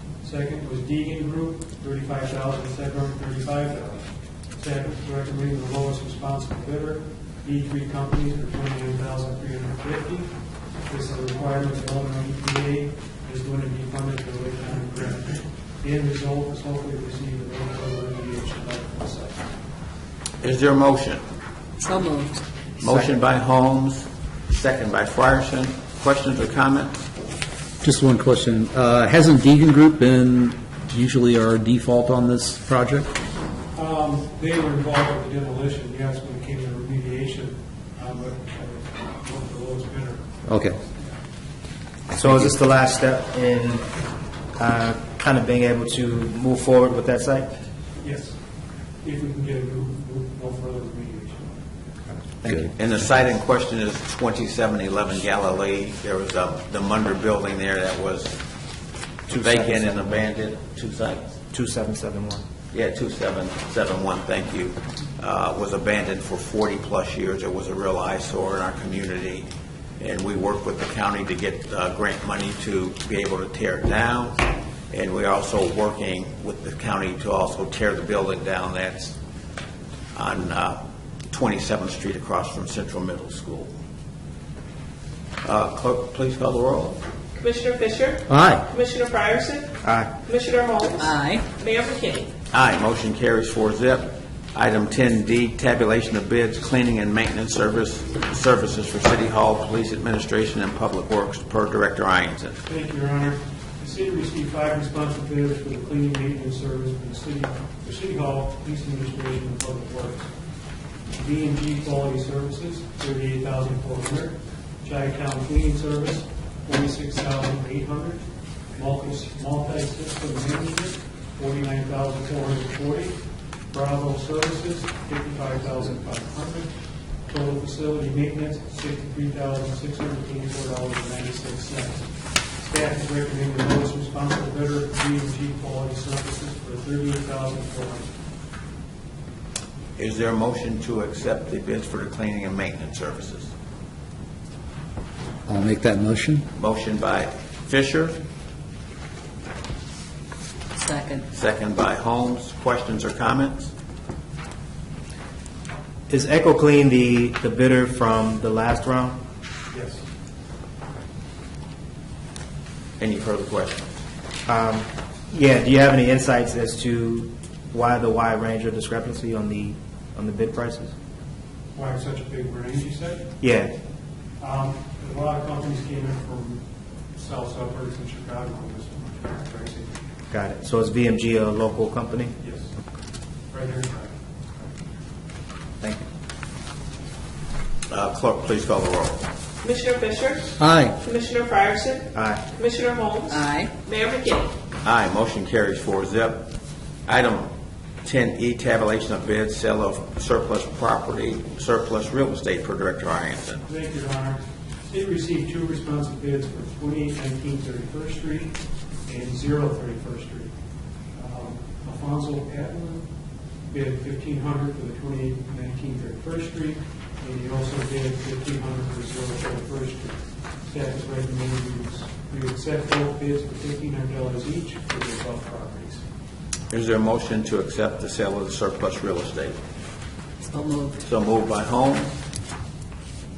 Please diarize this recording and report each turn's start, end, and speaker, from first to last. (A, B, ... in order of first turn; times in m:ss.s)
0:00.2-0:10.3 A
0:10.9-0:19.5 A
0:20.4-0:21.2 B
0:21.8-0:22.4 C
0:22.8-0:27.0 B
0:27.8-0:33.1 D
0:33.7-0:41.1 A
0:40.5-0:40.8 D
0:42.1-0:43.8 E
0:44.6-0:47.5 E
0:48.0-0:48.3 A
0:49.0-0:51.6 A
0:52.4-0:58.4 B
0:59.3-1:00.2 E
0:59.4-1:01.2 B
1:01.5-1:02.4 E
1:02.7-1:09.5 B
1:10.0-1:19.2 B
1:20.1-1:23.7 B
1:25.4-1:27.0 B
1:27.4-1:29.7 F
1:28.3-1:28.7 D
1:29.8-1:30.1 E
1:30.2-1:32.3 F
1:31.0-1:31.5 C
1:32.5-1:42.6 B
1:42.6-1:50.3 A
1:51.1-1:58.2 A
1:58.7-2:06.7 A
2:07.3-2:18.1 A
2:20.0-2:23.5 B
2:25.5-2:26.4 D
2:26.6-2:28.2 B
2:30.8-2:31.3 C
2:31.3-2:33.7 B
2:36.1-2:39.2 E
2:39.7-2:40.0 A
2:43.0-2:43.9 B
2:44.4-2:50.9 E
2:51.7-2:53.3 A
2:53.4-2:53.7 E
2:54.4-2:56.6 A
2:57.2-3:00.0 A
3:00.3-3:02.3 E
3:02.4-3:02.7 A
3:03.5-3:04.1 A
3:07.9-3:09.2 B
3:09.6-3:14.5 F
3:10.6-3:11.0 D
3:12.1-3:12.4 E
3:13.3-3:13.7 C
3:14.8-3:16.5 B
3:17.0-3:17.5 B
3:18.0-3:23.6 B
3:23.6-3:30.5 A
3:31.1-3:33.0 A
3:33.7-3:46.0 A
3:46.7-3:49.6 B
3:50.5-3:51.0 C
3:51.0-3:52.1 B